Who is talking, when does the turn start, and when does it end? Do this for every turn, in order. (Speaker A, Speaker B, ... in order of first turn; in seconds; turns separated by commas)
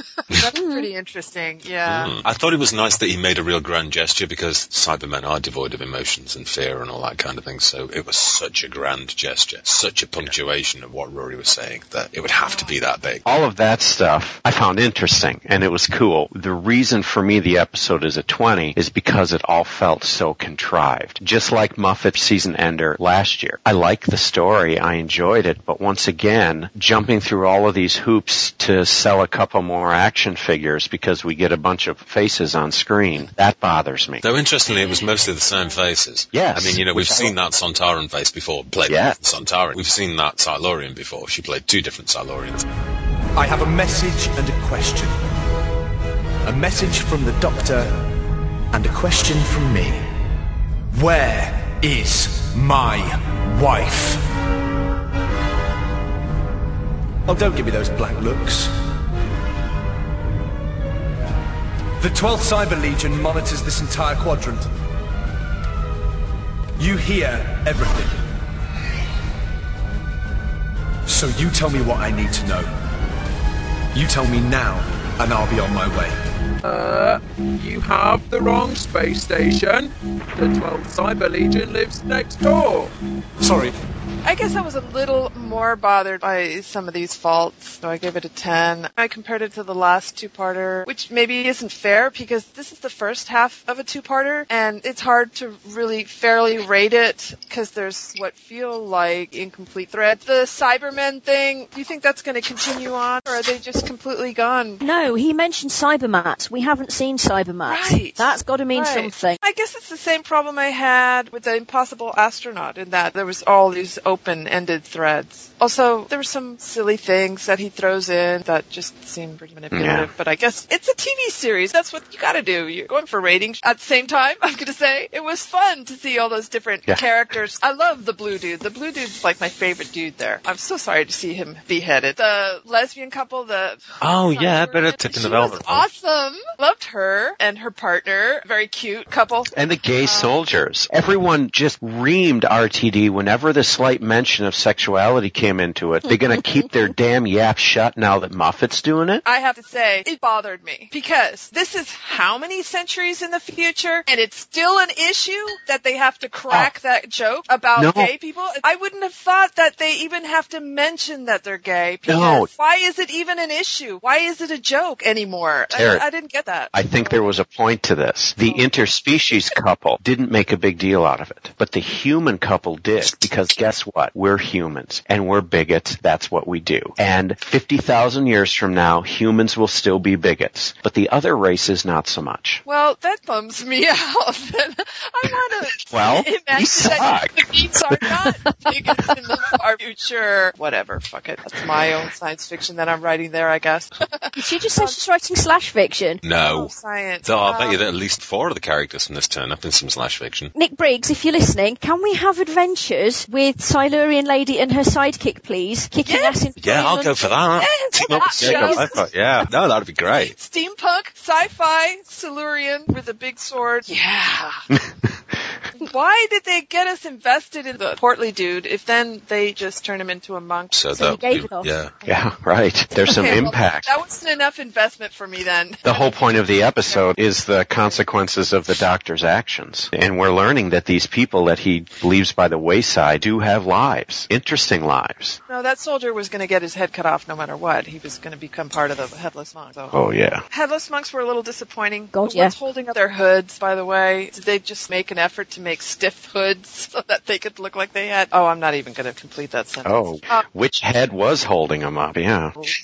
Speaker A: 0.3-2.1, Speaker B: 0.5-0.9, Speaker C: 1.9-13.2, Speaker A: 12.4-12.7, Speaker D: 13.2-34.2, Speaker C: 34.2-42.6, Speaker D: 36.3-37.3, Speaker D: 38.8-39.2, Speaker E: 43.3-45.2, Speaker E: 46.5-48.0, Speaker E: 48.7-50.0, Speaker E: 50.9-54.2, Speaker E: 57.3-58.7, Speaker E: 62.0-64.7, Speaker E: 66.8-68.2, Speaker E: 71.1-72.7, Speaker E: 73.9-76.2, Speaker F: 76.6-82.9, Speaker E: 83.4-83.8, Speaker A: 84.2-104.8, Speaker B: 104.8-109.4, Speaker A: 107.7-139.5, Speaker D: 119.7-120.1, Speaker C: 134.0-135.9, Speaker D: 139.5-149.2, Speaker A: 140.0-140.4, Speaker A: 149.2-167.2, Speaker D: 157.8-158.1, Speaker D: 162.1-162.5, Speaker D: 165.7-166.1, Speaker D: 166.7-182.6, Speaker A: 182.7-195.0, Speaker D: 185.8-187.5, Speaker B: 194.4-196.2, Speaker C: 196.2-196.7, Speaker A: 196.4-197.8, Speaker C: 197.2-200.5, Speaker B: 200.6-207.4, Speaker A: 206.1-206.3, Speaker C: 206.6-210.3, Speaker A: 207.6-209.1, Speaker B: 208.1-209.0, Speaker A: 210.2-214.7, Speaker D: 214.7-215.1, Speaker A: 215.8-220.7, Speaker C: 220.7-221.9, Speaker B: 220.9-221.7, Speaker D: 222.1-223.9, Speaker A: 223.1-226.3, Speaker D: 225.8-235.4, Speaker A: 235.5-240.0, Speaker D: 239.9-240.4, Speaker A: 240.5-250.4, Speaker B: 242.1-242.5, Speaker D: 249.8-252.6